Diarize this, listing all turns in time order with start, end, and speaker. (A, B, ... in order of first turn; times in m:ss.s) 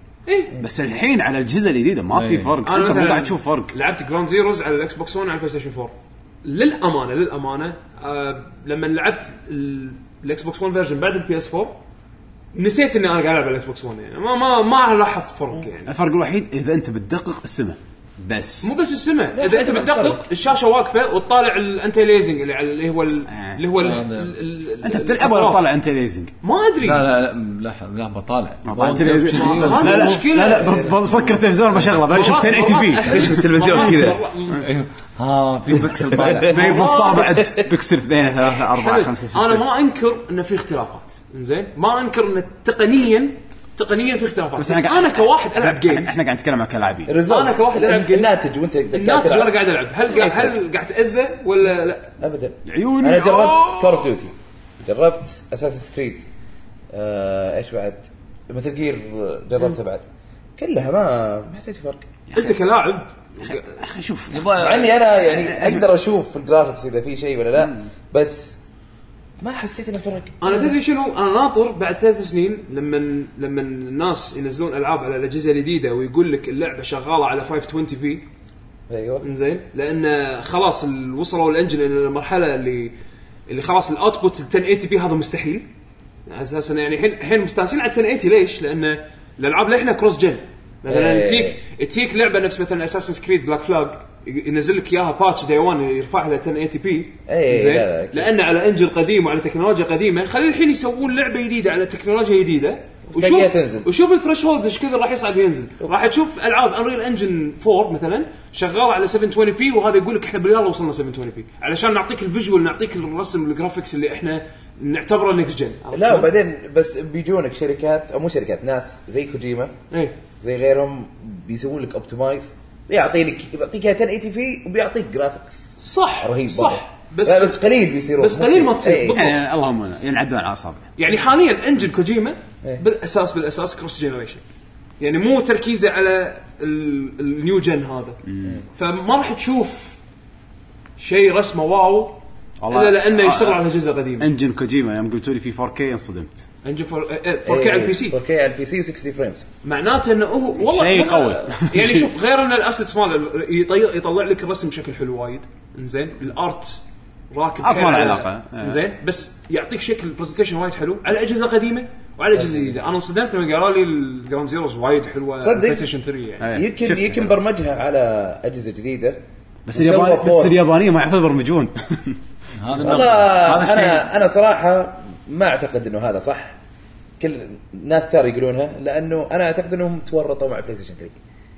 0:00.3-0:00.5 A
0:00.6-0:03.7 B
0:02.1-0:02.6 C
0:02.6-0:11.7 A
0:12.5-0:15.9 A
0:15.9-0:18.7 B
0:18.6-0:25.6 A
0:19.3-0:20.2 D
0:23.3-0:23.6 B
0:23.8-0:24.3 C
0:24.8-0:26.3 B
0:26.4-0:27.0 A
0:26.8-0:30.3 C
0:28.6-0:33.4 B
0:29.0-0:31.1 A
0:31.9-0:34.6 A
0:33.1-0:34.2 D
0:34.6-0:36.8 C
0:35.9-0:37.6 D
0:36.3-0:39.6 B
0:36.5-0:37.5 A
0:38.5-0:46.2 A
0:44.6-0:47.1 B
0:47.1-0:49.6 D
0:47.2-0:48.3 A
0:48.9-0:52.1 A
0:50.1-0:50.6 D
0:52.2-0:56.2 D
0:52.6-0:54.1 B
0:56.9-1:02.1 D
1:02.3-1:02.6 B
1:02.3-1:03.8 A
1:03.4-1:04.5 B
1:04.3-1:05.1 C
1:04.5-1:08.6 D
1:05.3-1:05.9 B
1:07.6-1:07.9 B
1:09.4-1:10.7 D
1:10.4-1:18.2 A
1:18.9-1:19.3 D
1:19.2-1:22.9 A
1:23.5-1:25.6 A
1:26.3-1:56.3 A
1:30.9-1:31.6 D
1:37.3-1:38.3 D
1:43.1-1:43.9 D
1:55.9-1:59.7 D
2:00.4-2:09.2 D
2:05.8-2:09.4 A
2:09.1-2:10.9 B
2:11.0-2:14.4 A
2:15.0-2:18.2 A
2:18.3-2:18.6 B
2:18.8-2:20.0 A
2:21.0-2:24.3 A
2:22.6-2:23.6 B
2:24.2-2:26.4 B
2:26.6-2:28.2 A
2:27.4-2:29.5 D
2:29.6-2:46.6 A
2:30.6-2:32.1 B
2:37.6-2:38.8 B
2:42.3-2:42.8 D
2:45.4-2:45.9 D
2:46.4-2:47.4 B
2:46.5-2:49.2 D
2:49.6-2:52.2 B
2:49.7-2:50.5 D
2:52.6-2:54.1 C
2:52.8-2:56.6 D
2:57.2-3:01.1 D